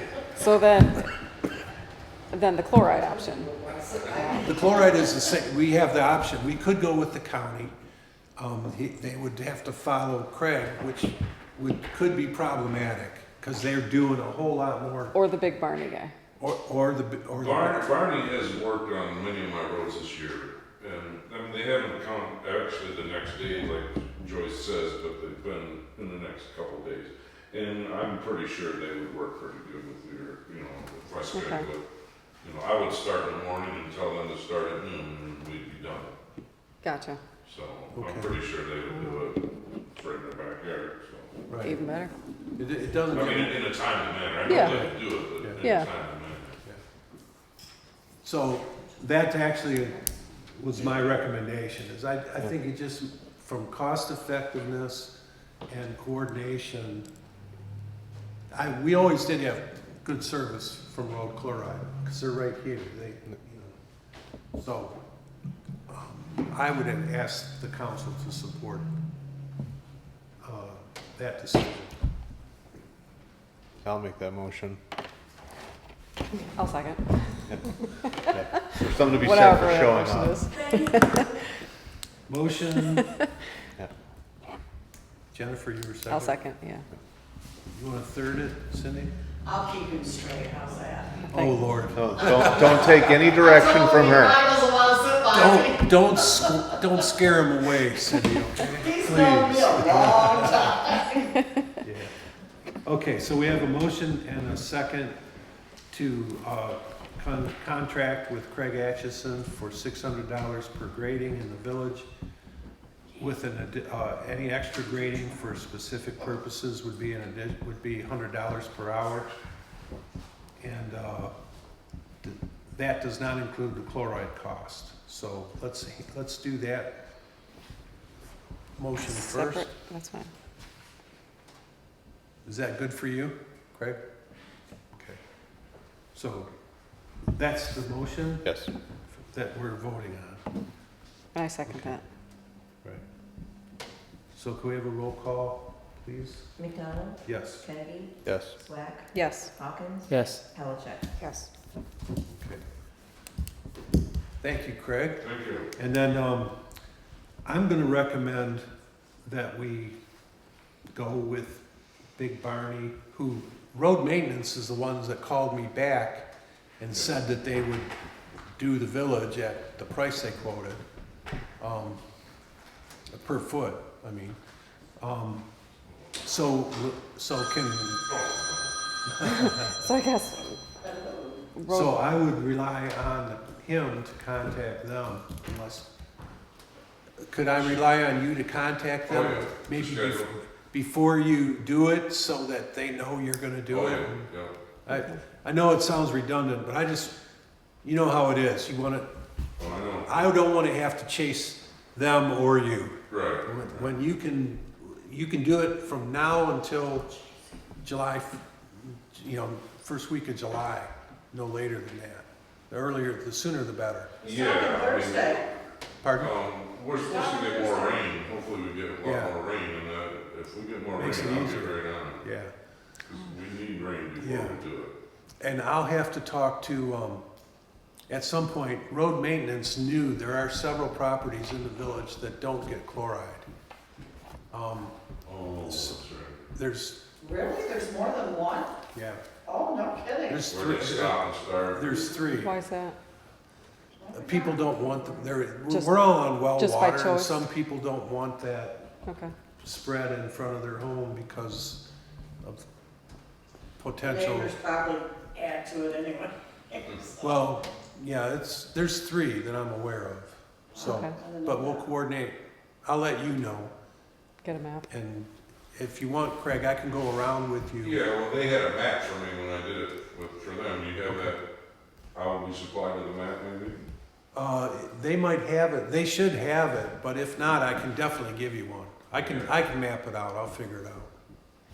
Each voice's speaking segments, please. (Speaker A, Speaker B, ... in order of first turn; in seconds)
Speaker A: 0.4-1.1, 2.3-3.5, 15.1-16.1, 31.3-31.7, 36.8-37.2, 38.9-39.2, 41.6-42.1, 44.5-44.9, 45.6-45.9, 76.6-77.5, 78.3-81.5, 83.0-83.3, 86.1-86.8, 91.3-91.6, 129.0-130.3, 141.3-142.0, 149.1-149.5, 151.2-151.5, 179.2-180.6, 181.6-182.0, 242.3-243.0, 245.7-247.4, 249.1-249.3, 260.8-261.1, 264.4-264.9
Speaker B: 2.9-5.1, 80.5-81.4, 89.5-91.2, 92.6-96.6, 98.8-101.3, 180.8-181.4, 214.2-215.5, 216.9-218.1, 237.2-238.7, 239.4-240.4, 244.0-245.0, 254.0-257.3, 260.8-261.9
Speaker C: 4.4-7.7, 8.4-15.2, 16.4-18.0, 37.9-38.3, 41.5-41.8, 42.6-43.6, 44.5-45.6, 48.2-55.1, 55.7-57.1, 58.5-63.8, 64.6-65.0, 65.9-68.9, 70.4-71.9, 82.3-83.1, 85.3-86.4, 87.7-89.1, 91.3-93.1, 95.3-100.7, 101.8-102.1, 102.8-105.2, 105.9-112.1, 113.2-119.3, 120.6-121.3, 122.2-126.9, 128.8-129.7, 132.4-134.0, 134.9-135.2, 136.1-136.5, 137.3-138.5, 139.2-140.4, 144.3-146.5, 147.2-147.7, 152.3-152.6, 154.4-155.2, 155.8-156.6, 157.4-158.7, 159.2-160.0, 160.9-161.6, 162.2-166.3, 166.8-167.9, 168.6-170.8, 171.6-172.0, 173.1-174.4, 175.0-175.4, 176.2-178.0, 179.2-179.8, 181.7-185.9, 187.2-194.3, 194.8-197.2, 197.8-199.1, 200.1-207.1, 207.8-214.1, 216.0-216.3, 219.0-219.3, 221.0-222.5, 224.2-224.6, 225.4-227.2, 228.1-233.4, 234.5-234.9, 235.6-237.0, 238.9-239.2, 240.3-241.2, 241.7-242.5, 244.1-248.8, 249.6-251.8, 253.8-254.5, 257.2-263.7, 264.9-268.0, 274.3-281.1
Speaker D: 17.4-31.8, 32.4-36.1, 37.5-41.3, 43.1-46.6, 155.2-155.7, 178.1-178.8, 189.1-190.3, 193.7-194.5, 199.6-200.3, 203.1-203.9, 214.2-215.4, 216.2-222.2, 223.1-224.9, 235.3-236.4, 240.5-242.2, 267.8-271.4, 272.1-273.8, 279.1-279.6
Speaker E: 73.8-74.8, 78.3-80.5, 91.9-94.4, 138.4-138.7, 148.2-148.6
Speaker F: 146.6-151.1